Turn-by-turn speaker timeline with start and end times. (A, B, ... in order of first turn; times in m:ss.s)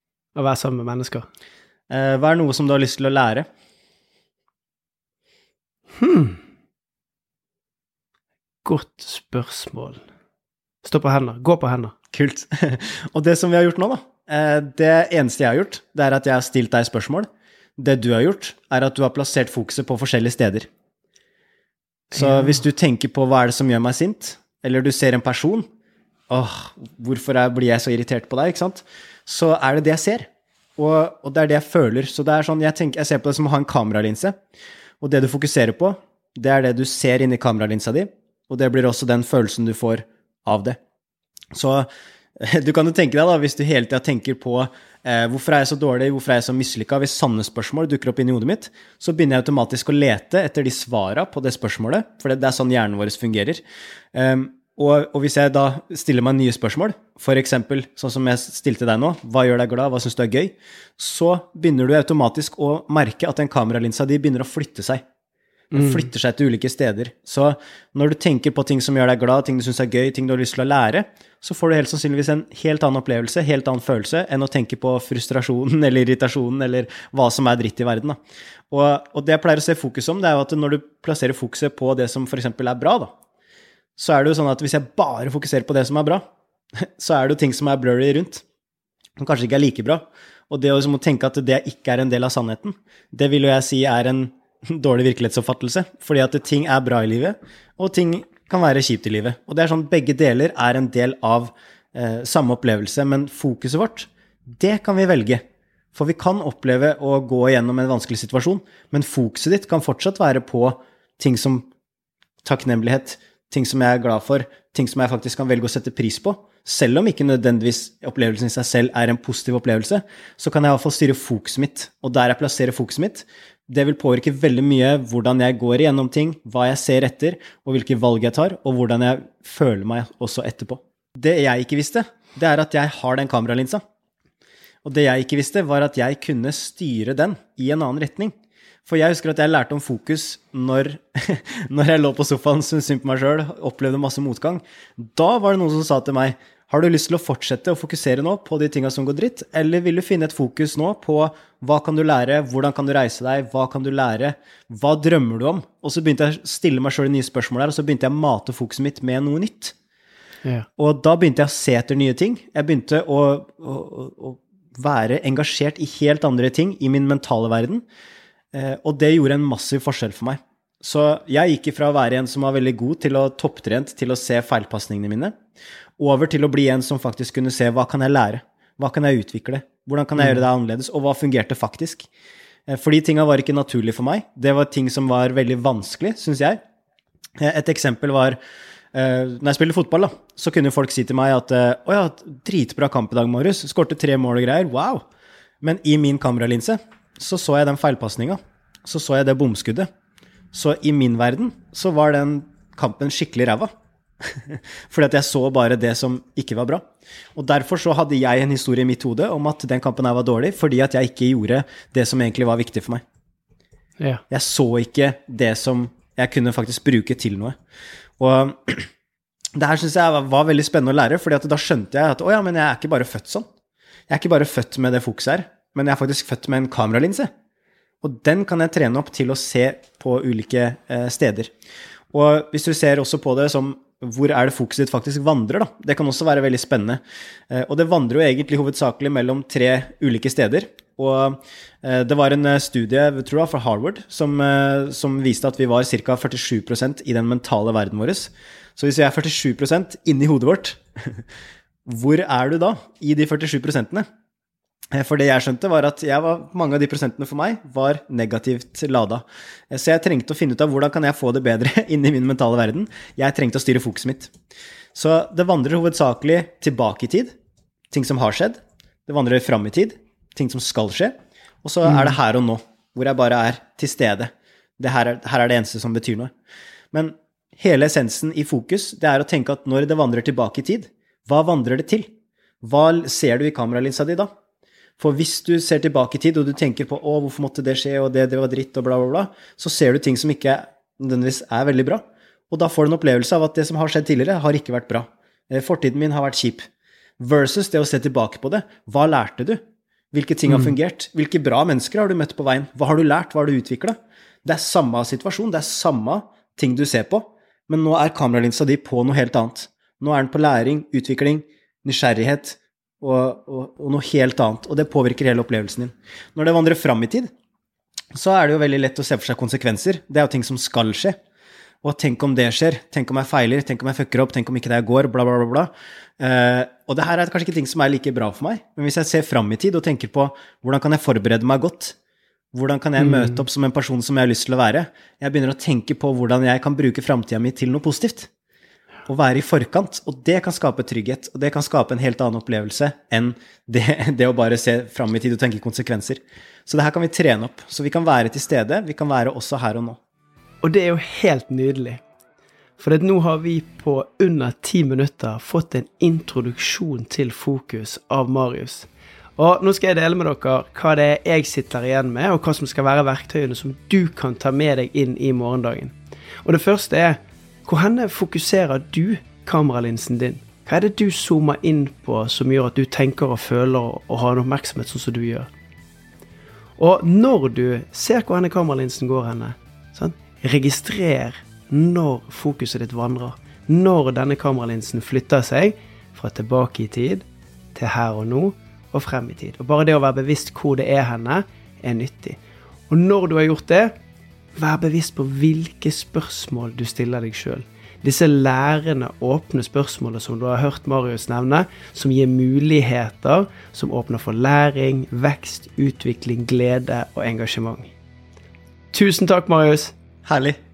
0:00.3-0:01.2 A
0:01.9-0:03.4 B
0:06.0-0:06.4 A
0:08.6-0:10.0 A
0:10.8-0:11.9 A
0:12.1-0:20.7 B
0:22.1-0:25.6 B
0:22.1-0:22.6 A
0:26.3-0:34.4 B
0:35.0-0:40.8 B
0:41.5-0:41.9 B
0:42.4-0:53.6 B
0:54.1-1:05.0 B
1:05.7-1:06.1 A
1:05.7-1:18.2 B
1:18.7-1:23.1 B
1:24.0-1:26.2 B
1:27.0-1:28.4 B
1:29.2-1:45.4 B
1:45.9-1:51.7 B
1:52.4-2:13.8 B
2:14.8-2:18.3 B
2:18.8-2:39.7 B
2:40.8-2:47.8 B
2:48.5-2:55.3 B
2:56.0-3:02.1 B
3:00.2-3:00.4 A
3:02.7-3:06.6 B
3:07.4-3:08.4 B
3:08.9-3:15.0 B
3:15.6-3:19.9 B
3:20.5-3:23.7 B
3:24.2-3:26.8 B
3:27.3-3:33.0 B
3:34.3-3:37.5 B
3:38.2-3:38.9 B
3:39.6-3:43.4 B
3:44.1-3:47.3 B
3:48.0-3:51.5 B
3:52.1-4:11.2 B
4:11.8-4:14.0 B
4:14.9-4:24.3 B
4:24.9-4:27.3 B
4:27.9-4:31.1 B
4:31.6-4:36.3 B
4:31.8-4:32.2 A
4:36.9-4:42.1 B
4:42.6-4:44.3 B
4:45.0-4:56.6 B
4:57.2-4:59.6 B
5:00.1-5:17.3 B
5:00.5-5:00.8 A
5:18.1-5:21.2 B
5:21.8-5:32.0 B
5:32.5-5:38.3 B
5:33.0-5:33.4 A
5:39.1-5:50.0 B
5:50.6-5:52.0 A
5:52.8-6:15.5 A
6:16.8-6:33.9 A
6:34.5-6:47.9 A
6:48.9-6:50.0 A
6:50.2-6:50.6 B